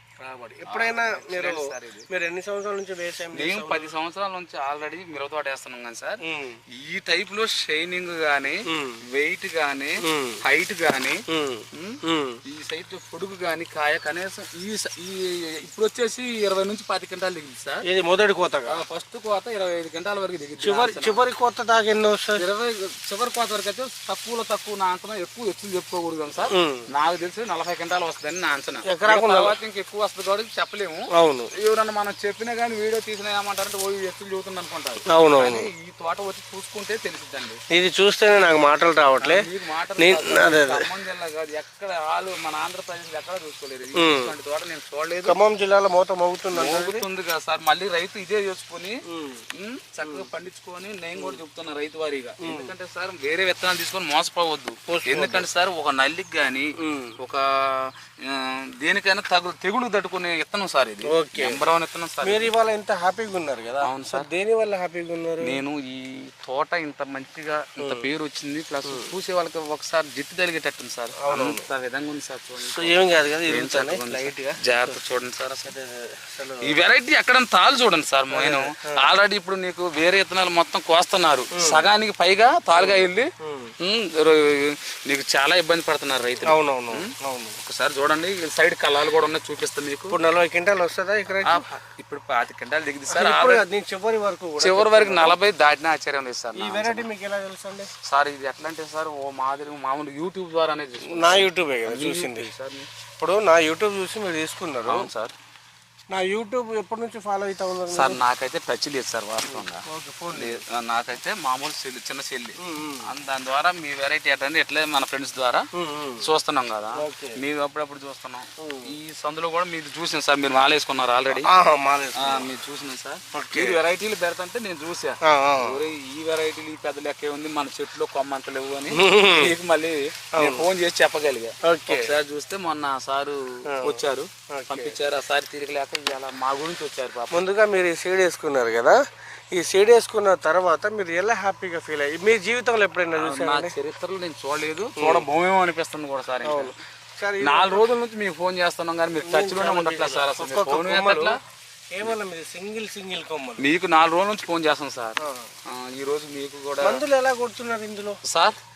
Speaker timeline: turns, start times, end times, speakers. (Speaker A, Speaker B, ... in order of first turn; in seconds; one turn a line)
Speaker A: 0.2-3.9
Speaker B: 0.7-2.0
Speaker B: 3.3-6.2
Speaker A: 6.2-6.6
Speaker B: 6.7-11.2
Speaker A: 8.7-9.0
Speaker A: 10.0-10.4
Speaker A: 11.3-12.4
Speaker B: 11.7-17.8
Speaker A: 17.8-18.8
Speaker B: 18.7-21.2
Speaker A: 20.6-22.4
Speaker B: 22.3-31.1
Speaker A: 26.5-26.9
Speaker A: 28.8-29.6
Speaker A: 31.1-31.5
Speaker B: 31.6-37.6
Speaker A: 35.1-35.7
Speaker A: 37.7-39.4
Speaker B: 39.2-45.4
Speaker A: 40.0-40.8
Speaker A: 43.9-44.3
Speaker A: 45.2-47.0
Speaker B: 46.5-49.0
Speaker A: 49.1-49.4
Speaker B: 49.5-62.5
Speaker A: 50.0-50.3
Speaker A: 52.4-52.7
Speaker A: 54.9-55.5
Speaker A: 56.8-57.1
Speaker A: 61.1-61.6
Speaker A: 62.2-65.6
Speaker B: 63.8-64.3
Speaker B: 65.4-75.7
Speaker A: 67.8-68.1
Speaker A: 71.2-71.6
Speaker A: 72.6-75.0
Speaker A: 75.7-76.8
Speaker B: 76.7-83.3
Speaker A: 78.3-79.0
Speaker A: 81.5-81.9
Speaker A: 82.7-83.7
Speaker B: 83.8-87.1
Speaker A: 86.4-87.5
Speaker B: 87.6-90.2
Speaker A: 90.1-91.6
Speaker B: 91.4-93.6
Speaker A: 93.1-95.4
Speaker B: 94.6-97.1
Speaker A: 96.5-97.9
Speaker B: 98.0-102.9
Speaker A: 101.0-102.5
Speaker A: 103.2-105.0
Speaker B: 104.9-105.3
Speaker A: 106.1-108.2
Speaker B: 107.9-115.7
Speaker A: 109.5-110.6
Speaker A: 112.6-113.1
Speaker A: 115.8-116.2
Speaker B: 116.2-121.5
Speaker A: 117.0-117.4
Speaker A: 118.6-118.9
Speaker A: 121.3-122.5
Speaker B: 122.2-137.4
Speaker A: 123.3-123.8
Speaker A: 125.2-125.8
Speaker A: 128.9-129.5
Speaker A: 130.3-130.7
Speaker A: 131.6-132.1
Speaker A: 133.7-134.0
Speaker A: 134.5-134.9
Speaker A: 137.3-139.0
Speaker A: 139.5-143.7
Speaker B: 143.1-146.7
Speaker A: 145.0-145.2
Speaker A: 146.4-147.8
Speaker B: 147.4-151.4
Speaker A: 149.2-151.4
Speaker A: 151.9-153.7
Speaker B: 153.6-157.0
Speaker A: 155.2-155.4
Speaker A: 156.8-158.2
Speaker B: 158.2-158.6